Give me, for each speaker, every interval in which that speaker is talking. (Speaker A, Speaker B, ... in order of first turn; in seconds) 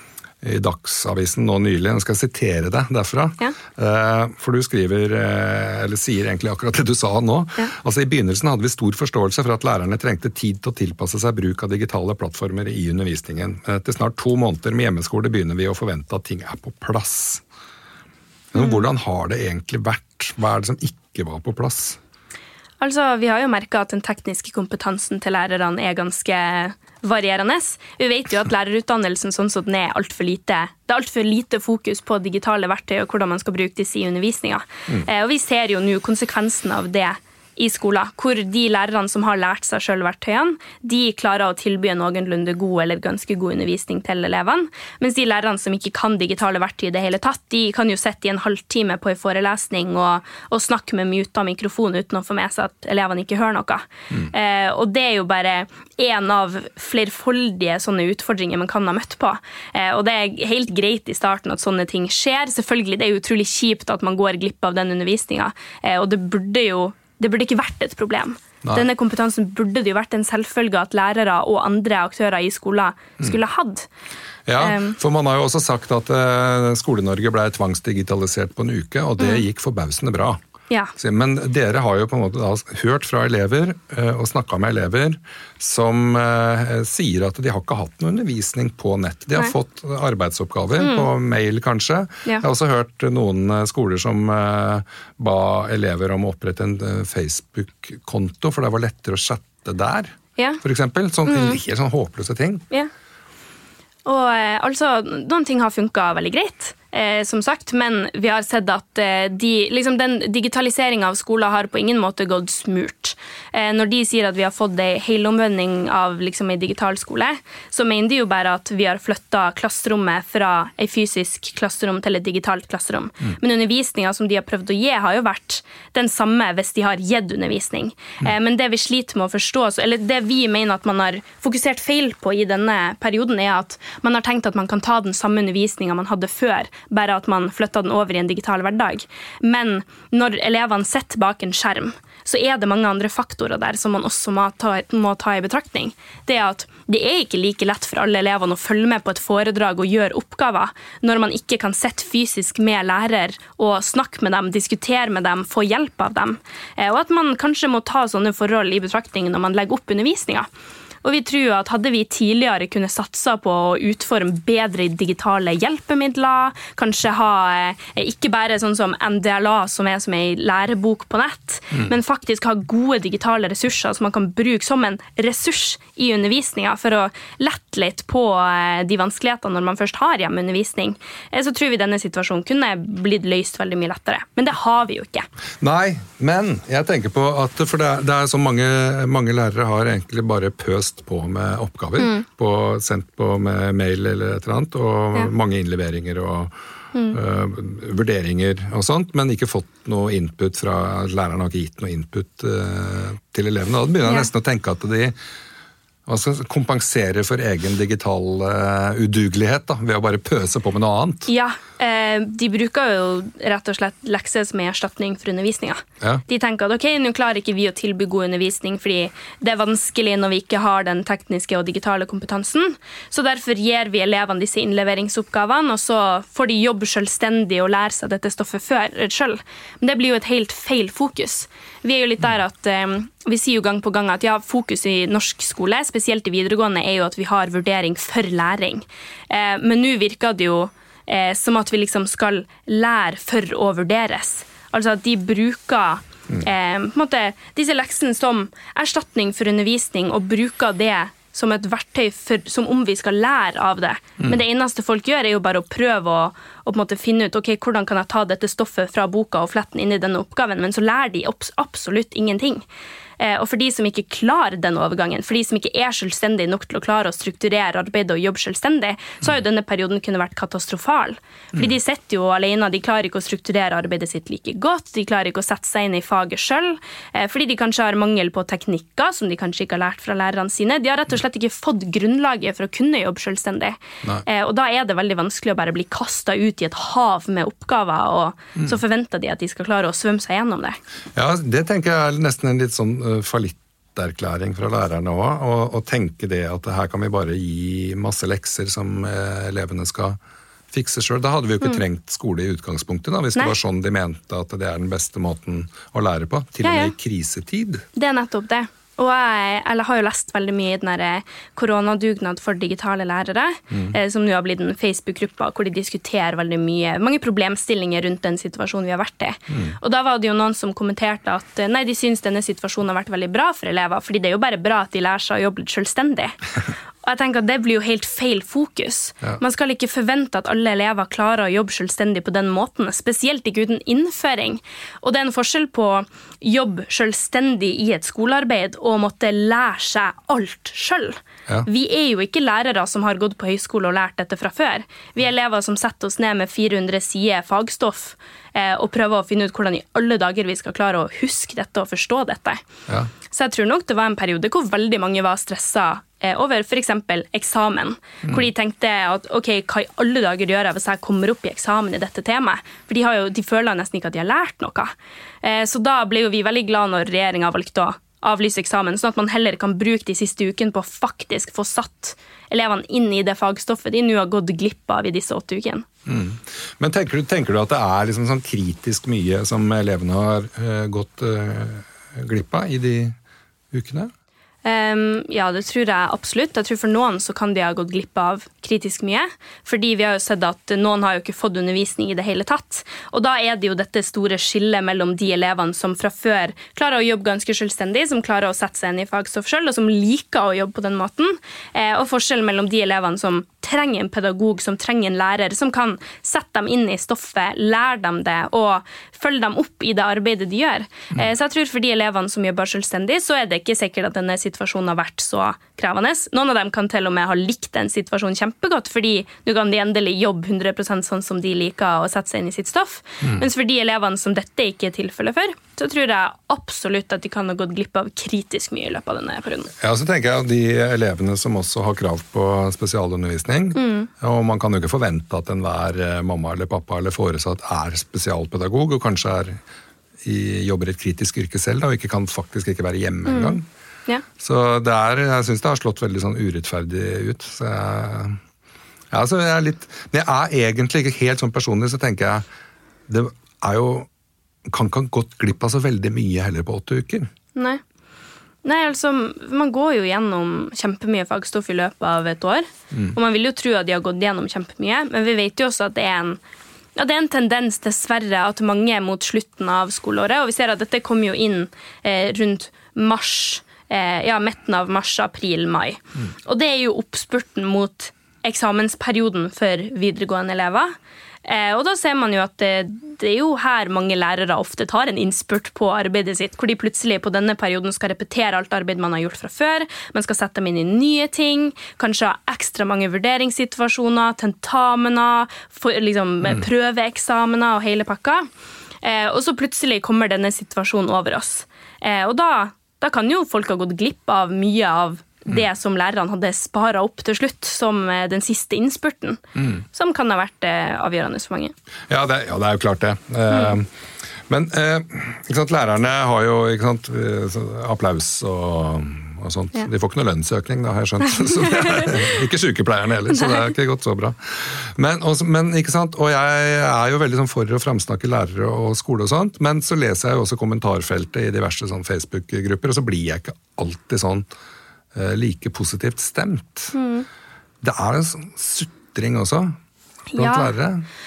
Speaker A: 0.4-17.4, 18.5-22.0, 74.5-80.4, 81.0-102.6, 185.6-196.5, 197.1-205.2, 206.1-211.3, 291.1-300.2, 300.7-307.9, 376.1-383.1, 383.7-384.1, 429.8-439.6, 440.2-443.6, 444.4-448.4, 449.1-452.4, 453.1-454.1, 454.6-457.3, 512.1-513.9, 514.5-534.5, 535.1-536.9, 537.8-539.7, 540.3-541.0
Speaker B: 18.6-18.8, 22.8-73.9, 74.6-75.0, 79.2-79.4, 90.8-91.1, 101.2-101.6, 104.0-160.5, 161.0-185.3, 192.0-192.2, 196.9-197.2, 204.0-204.3, 211.3-262.6, 263.2-290.8, 306.6-306.9, 307.9-326.4, 327.0-352.6, 353.3-375.9, 384.6-429.7, 433.7-434.1, 443.3-444.2, 457.5-457.8, 458.6-466.4, 466.9-498.5, 499.0-511.7, 536.9-537.3, 540.3-540.7